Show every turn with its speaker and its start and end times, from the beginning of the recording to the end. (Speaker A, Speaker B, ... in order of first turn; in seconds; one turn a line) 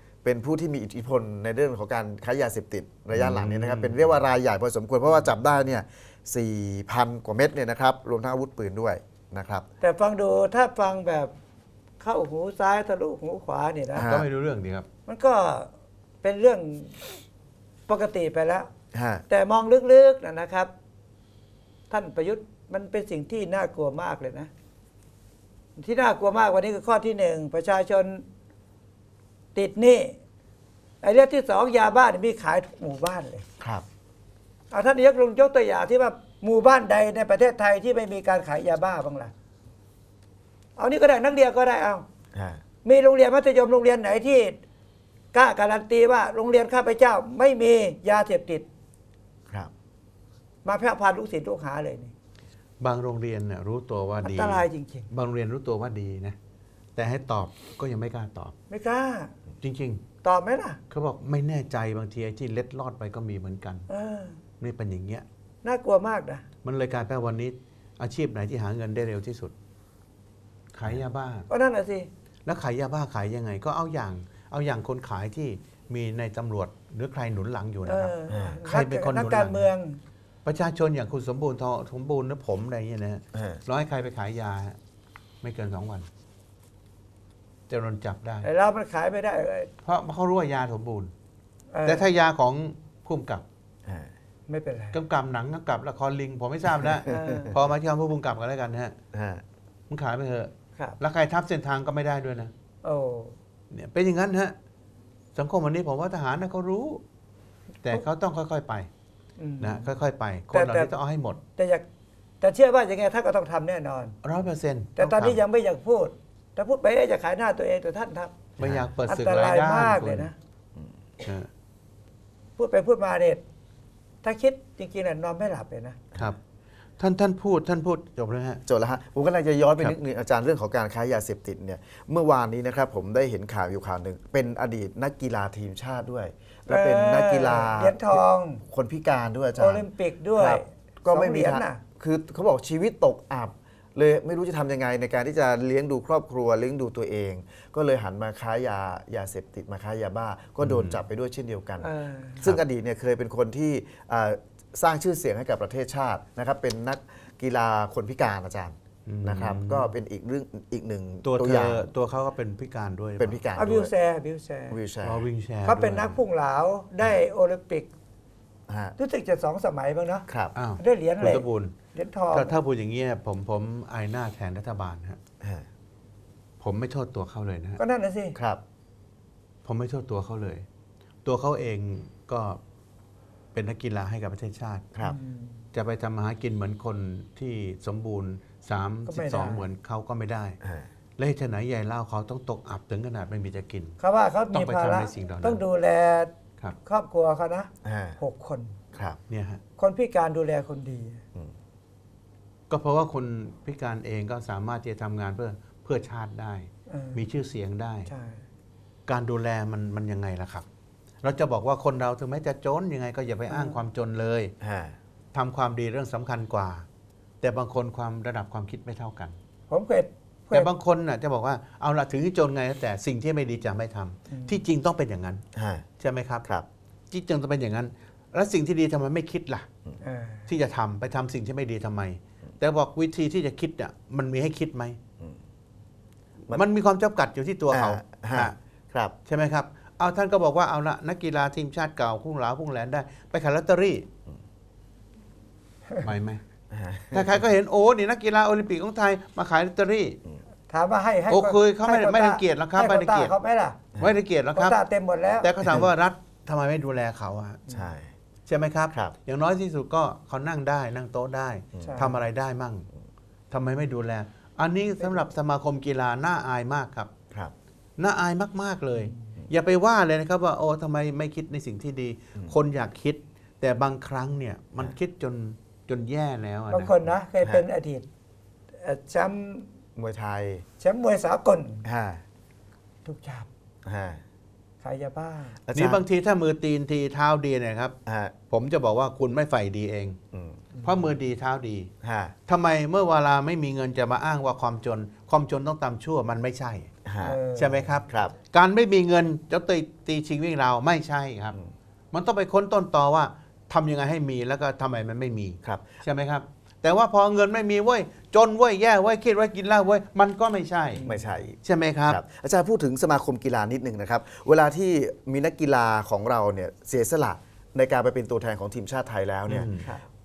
Speaker A: 0.2-9.7
Speaker B: 3.1-4.2
Speaker C: 9.8-11.3
Speaker C: 12.0-14.1
Speaker A: 13.9-14.3
Speaker B: 14.0-14.9
Speaker C: 15.1-15.7
Speaker C: 16.2-17.2
Speaker C: 17.9-18.7
Speaker A: 18.9-19.2
Speaker C: 19.3-20.7
Speaker C: 21.9-24.5
Speaker C: 25.8-28.2
Speaker C: 29.5-30.2
Speaker C: 31.0-33.4
Speaker C: 34.7-39.3
Speaker C: 40.8-42.0
Speaker A: 42.3-42.6
Speaker C: 42.8-44.6
Speaker C: 45.3-48.6
Speaker C: 50.6-52.1
Speaker B: 52.8-56.4
Speaker C: 54.2-55.1
Speaker B: 57.0-58.5
Speaker C: 58.7-59.3
Speaker B: 59.6-60.0
Speaker C: 60.2-60.8
Speaker B: 60.9-63.9
Speaker C: 63.9-64.4
Speaker B: 64.6-65.2
Speaker C: 65.6-66.4
Speaker B: 66.6-69.5
Speaker B: 70.7-71.5
Speaker C: 71.5-72.1
Speaker B: 72.5-79.7
Speaker C: 77.8-80.0
Speaker A: 78.3-78.6
Speaker B: 80.4-84.8
Speaker A: 83.3-83.6
Speaker B: 85.4-86.1
Speaker B: 87.7-88.5
Speaker C: 88.4-89.7
Speaker B: 89.8-91.1
Speaker C: 91.7-92.0
Speaker B: 91.8-93.4
Speaker C: 94.5-95.0
Speaker B: 94.9-98.9
Speaker A: 96.8-97.2
Speaker C: 97.0-97.6
Speaker A: 99.1-99.4
Speaker B: 99.9-102.5
Speaker C: 102.8-103.3
Speaker B: 103.7-104.5
Speaker B: 105.3-107.0
Speaker B: 107.8-108.9
Speaker C: 109.4-109.9
Speaker B: 109.6-111.4
Speaker C: 110.5-110.9
Speaker C: 111.5-111.8
Speaker C: 112.4-114.2
Speaker B: 114.2-115.4
Speaker C: 115.0-118.4
Speaker B: 118.6-120.3
Speaker A: 118.6-118.9
Speaker C: 119.1-120.3
Speaker B: 121.2-121.5
Speaker C: 122.6-123.4
Speaker C: 124.2-126.0
Speaker B: 127.0-128.6
Speaker A: 128.7-139.8
Speaker C: 136.7-138.6
Speaker C: 139.6-141.8
Speaker A: 140.3-151.9
Speaker B: 150.6-151.0
Speaker C: 151.8-152.4
Speaker A: 152.4-161.8
Speaker B: 159.1-159.9
Speaker B: 161.2-163.4
Speaker A: 163.2-163.9
Speaker C: 163.5-164.8
Speaker A: 164.7-165.3
Speaker B: 165.0-166.2
Speaker C: 165.6-167.9
Speaker A: 168.7-168.9
Speaker C: 169.0-170.2
Speaker A: 170.3-170.5
Speaker B: 170.5-171.7
Speaker C: 170.8-172.5
Speaker B: 172.3-175.2
Speaker B: 176.6-177.8
Speaker C: 177.8-178.4
Speaker A: 178.3-178.6
Speaker B: 179.6-180.6
Speaker B: 181.2-182.6
Speaker B: 183.5-184.9
Speaker C: 185.0-185.6
Speaker B: 185.7-190.6
Speaker C: 189.1-189.7
Speaker A: 190.6-190.9
Speaker B: 191.2-193.9
Speaker C: 194.0-196.3
Speaker B: 194.5-195.6
Speaker C: 196.8-198.8
Speaker A: 197.8-198.2
Speaker A: 198.9-199.2
Speaker B: 199.3-199.6
Speaker C: 199.8-201.2
Speaker B: 202.7-208.1
Speaker C: 206.9-207.2
Speaker C: 208.1-208.4
Speaker B: 209.1-210.6
Speaker B: 211.2-214.5
Speaker C: 213.5-213.8
Speaker A: 214.6-214.9
Speaker B: 215.3-216.8
Speaker B: 217.4-219.3
Speaker C: 219.7-220.7
Speaker B: 220.5-225.4
Speaker C: 224.3-224.6
Speaker A: 225.5-225.8
Speaker B: 226.0-226.4
Speaker B: 227.1-229.7
Speaker C: 230.0-230.5
Speaker B: 230.5-235.0
Speaker B: 236.5-238.5
Speaker A: 237.7-239.1
Speaker B: 239.3-244.1
Speaker B: 246.0-246.4
Speaker A: 246.7-247.4
Speaker B: 247.1-250.2
Speaker C: 250.7-253.8
Speaker B: 251.3-253.3
Speaker B: 254.0-254.8
Speaker C: 254.5-255.5
Speaker B: 255.4-257.6
Speaker C: 257.7-257.9
Speaker A: 257.7-258.1
Speaker B: 258.5-262.9
Speaker A: 261.7-262.1
Speaker C: 261.8-262.1
Speaker B: 263.5-267.1
Speaker B: 268.0-277.0
Speaker C: 276.7-278.1
Speaker C: 278.8-279.7
Speaker A: 279.9-280.6
Speaker C: 280.8-281.8
Speaker A: 281.8-282.2
Speaker C: 283.0-283.5
Speaker A: 283.8-284.2
Speaker C: 284.8-285.6
Speaker A: 285.6-286.0
Speaker B: 285.7-287.9
Speaker A: 288.1-288.3
Speaker B: 288.5-290.2
Speaker A: 290.3-290.6
Speaker B: 290.8-291.9
Speaker A: 292.0-292.3
Speaker B: 292.5-296.9
Speaker A: 297.0-297.4
Speaker C: 297.2-297.9
Speaker B: 297.6-301.6
Speaker A: 298.1-298.3
Speaker B: 302.1-311.0
Speaker A: 305.6-306.0
Speaker C: 310.9-311.3
Speaker A: 311.0-319.7
Speaker B: 311.6-312.2
Speaker B: 319.5-319.9